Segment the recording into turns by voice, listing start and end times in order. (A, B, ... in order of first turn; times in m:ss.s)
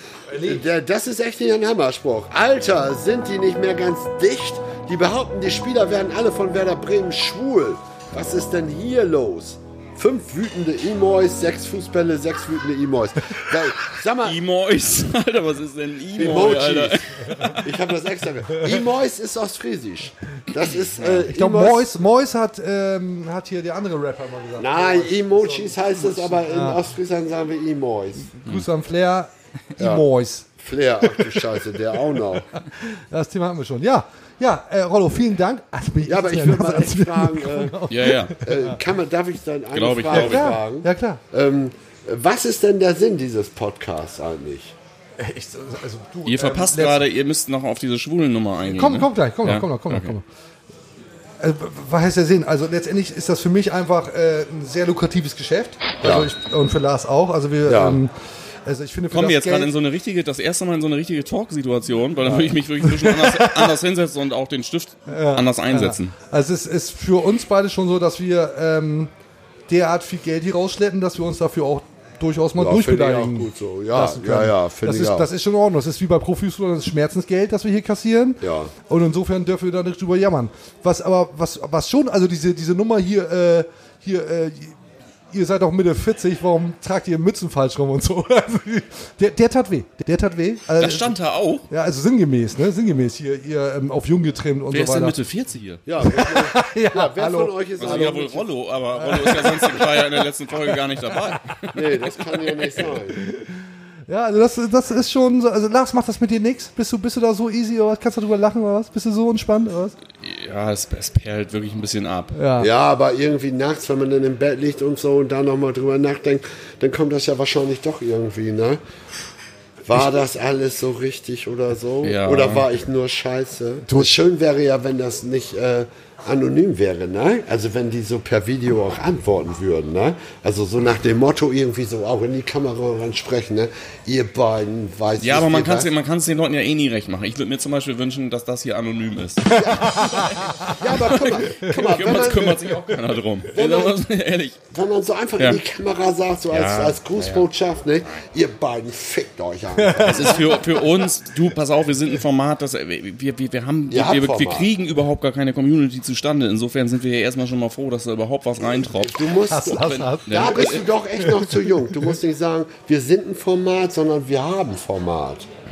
0:00.3-0:00.6 A
0:00.3-0:14.4 B
0:14.2-0:17.6 C
0:16.2-0:17.0 B
0:17.6-0:21.9 B
0:21.0-0:21.2 C
0:21.3-0:26.8 A
0:24.6-0:28.3 B
0:28.3-0:30.5 A
0:29.8-0:30.0 B
0:30.6-0:32.5 B
0:31.0-0:31.5 A
0:32.5-0:38.8 A
0:36.0-0:44.7 B
0:37.9-0:38.4 C
0:39.7-0:40.6 C
0:40.1-0:41.2 A
0:45.2-0:47.0 A
0:46.2-0:50.1 C
0:48.6-0:50.2 A
0:51.4-0:58.1 A
0:56.0-0:56.3 B
0:57.6-0:58.0 B
0:58.6-0:59.7 A
0:59.1-1:06.1 C
1:02.2-1:03.8 A
1:05.1-1:09.1 A
1:09.7-1:24.8 A
1:12.6-1:15.3 B
1:18.4-1:18.7 B
1:25.3-1:31.1 A
1:30.8-1:31.6 C
1:31.7-1:35.2 A
1:34.7-1:35.8 C
1:35.8-1:38.4 B
1:36.0-1:38.1 A
1:37.8-1:42.8 C
1:38.9-1:41.1 A
1:41.7-1:43.2 B
1:43.2-1:49.9 A
1:50.2-1:52.4 C
1:52.3-1:52.7 A
1:52.6-1:58.8 B
1:59.8-2:15.9 B
2:02.0-2:02.6 C
2:03.9-2:04.1 A
2:15.2-2:24.6 C
2:19.6-2:21.0 A
2:19.6-2:22.7 B
2:21.6-2:22.9 A
2:23.5-2:24.0 B
2:24.7-2:30.4 B
2:26.5-2:27.4 C
2:29.8-2:31.1 A
2:30.1-2:39.2 C
2:33.9-2:34.7 B
2:38.6-2:45.5 B
2:39.5-2:40.6 A
2:39.8-2:40.9 C
2:41.2-2:42.1 A